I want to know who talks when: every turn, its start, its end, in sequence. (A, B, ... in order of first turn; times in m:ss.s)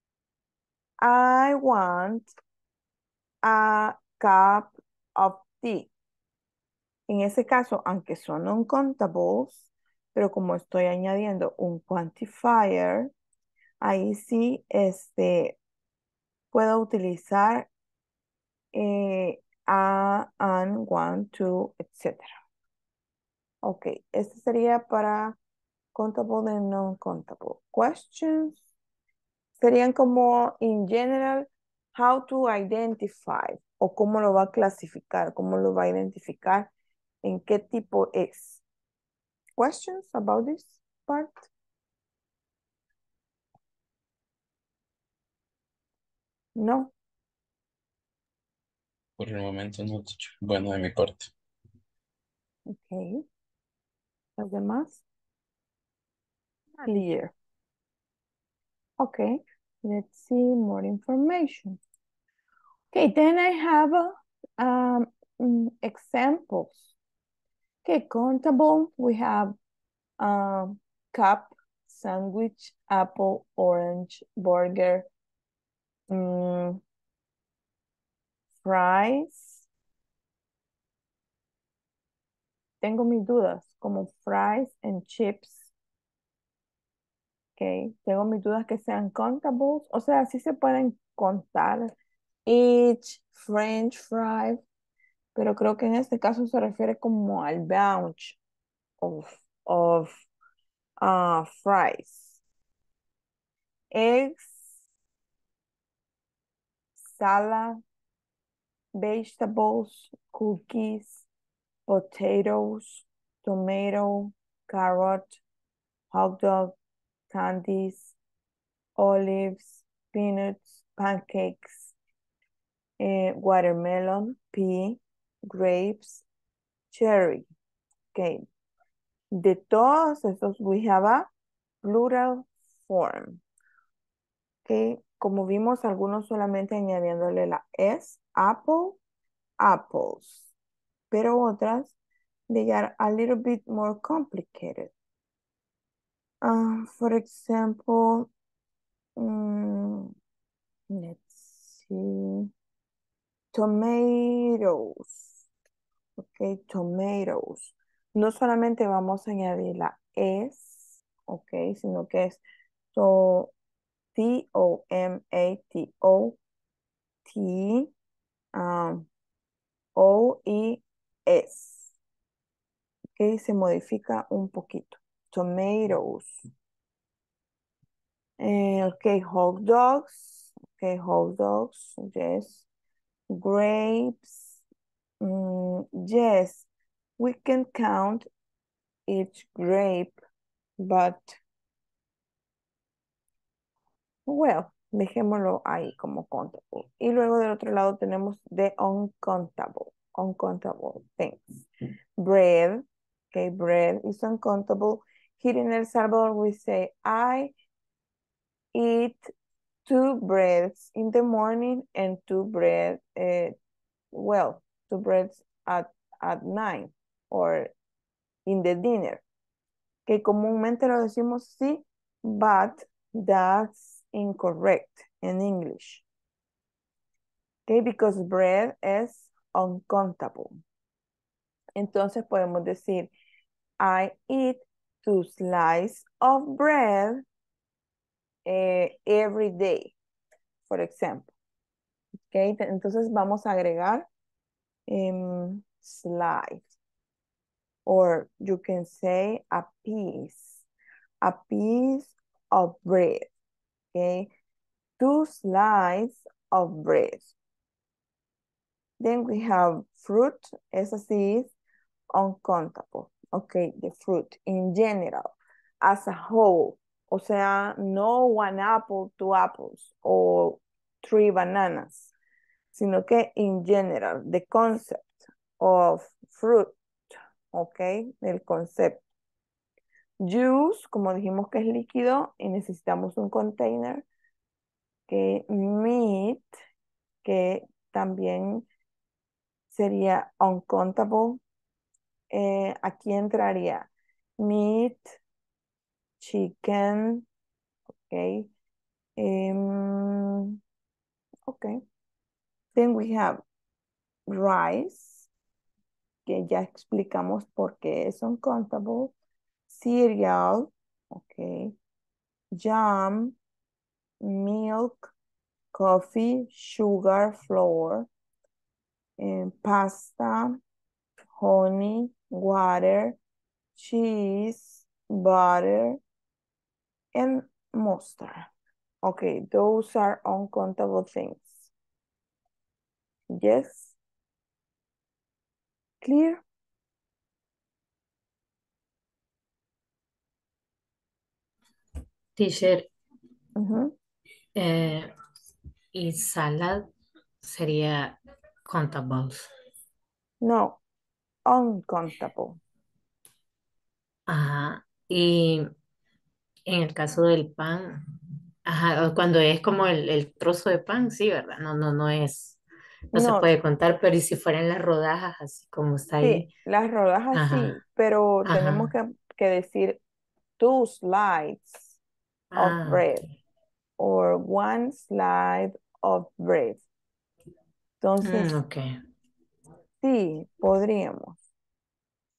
0:01.0-0:02.3 A
0:03.4-0:05.9 A
0:07.1-0:13.1 A
0:13.8-0:15.6 A
0:16.5-0:17.7 A
0:18.7-0:22.3 A
0:23.6-0:25.4 A
0:26.0-0:28.6 A
0:29.6-0:36.7 A
0:37.2-0:38.6 A
0:39.6-0:41.5 A
0:46.6-0:46.9 A
0:49.2-0:51.3 B
0:52.7-0:53.2 A
0:54.4-0:55.0 A
0:56.9-0:57.3 A
0:59.0-1:01.8 A
1:02.9-1:06.9 A
1:07.8-1:09.6 A
1:10.2-1:15.1 A
1:16.1-1:16.8 A
1:18.6-1:19.6 A
1:22.8-1:25.7 A
1:27.6-1:31.9 A
1:32.5-1:34.6 A
1:35.4-1:38.4 A
1:39.0-1:40.1 A
1:41.0-1:42.4 A
1:43.9-1:44.7 A
1:47.1-1:47.8 A
1:49.0-1:51.2 A
1:51.9-1:55.4 A
1:56.1-1:56.8 A
1:57.3-1:58.2 A
1:59.0-2:01.9 A
2:03.0-2:06.2 A
2:06.9-2:07.5 A
2:08.1-2:08.4 A
2:09.3-2:11.3 A
2:11.8-2:13.4 A
2:14.7-2:19.0 A
2:19.6-2:20.5 A
2:21.1-2:21.9 A
2:22.5-2:24.9 A
2:26.4-2:28.3 A
2:29.2-2:30.1 A
2:30.9-2:32.5 A
2:33.5-2:35.3 A
2:36.2-2:42.4 A
2:42.9-2:43.5 A
2:44.2-2:46.4 A
2:47.3-2:47.9 A
2:48.5-2:49.1 A
2:50.0-2:51.9 A
2:53.2-2:56.4 A
2:58.4-3:02.7 A
3:03.3-3:04.6 A
3:05.2-3:06.7 A
3:07.2-3:08.3 A
3:09.1-3:10.2 A
3:10.8-3:11.4 A
3:14.3-3:21.7 A
3:22.2-3:27.5 A
3:28.7-3:29.3 A
3:29.9-3:33.6 A
3:34.1-3:37.7 A
3:38.5-3:39.2 A
3:40.1-3:46.0 A
3:47.7-3:50.6 A
3:51.8-3:53.1 A
3:53.8-3:57.2 A
3:58.5-3:59.9 A
4:00.7-4:01.3 A
4:02.3-4:04.1 A
4:04.9-4:06.7 A
4:07.9-4:10.6 A
4:11.2-4:13.3 A
4:13.9-4:14.3 A
4:15.0-4:17.4 A
4:19.0-4:21.5 A
4:22.1-4:32.1 A
4:32.7-4:39.0 A
4:40.2-4:44.0 A
4:45.1-4:46.5 A
4:47.2-4:48.7 A
4:49.7-4:51.4 A
4:52.3-4:55.2 A
4:56.2-4:57.2 A
4:58.1-4:58.5 A
4:59.2-5:00.6 A
5:01.5-5:01.8 A
5:02.8-5:03.4 A
5:04.3-5:05.3 A
5:06.3-5:09.1 A
5:09.7-5:11.7 A
5:12.5-5:13.4 A
5:14.2-5:15.1 A
5:15.7-5:18.1 A
5:19.2-5:20.6 A
5:21.4-5:23.2 A
5:23.8-5:26.0 A
5:27.2-5:28.5 A
5:29.0-5:31.7 A
5:33.3-5:34.0 A
5:36.0-5:36.4 A
5:42.4-5:42.9 C
5:43.6-5:43.9 A
5:44.6-5:45.1 C
5:45.9-5:46.9 C
5:47.4-5:49.5 C
5:50.4-5:50.8 A
5:51.5-5:52.6 A
5:54.3-5:55.7 C
5:56.7-5:58.0 C
5:58.7-6:02.6 C
6:03.1-6:06.5 C
6:03.1-6:03.5 A
6:06.2-6:10.0 A
6:07.3-6:07.8 C
6:08.5-6:08.9 C
6:10.6-6:12.0 A
6:12.5-6:13.3 C
6:12.6-6:13.2 A
6:14.0-6:16.8 A
6:18.0-6:18.5 A
6:18.2-6:19.0 C
6:20.0-6:21.4 A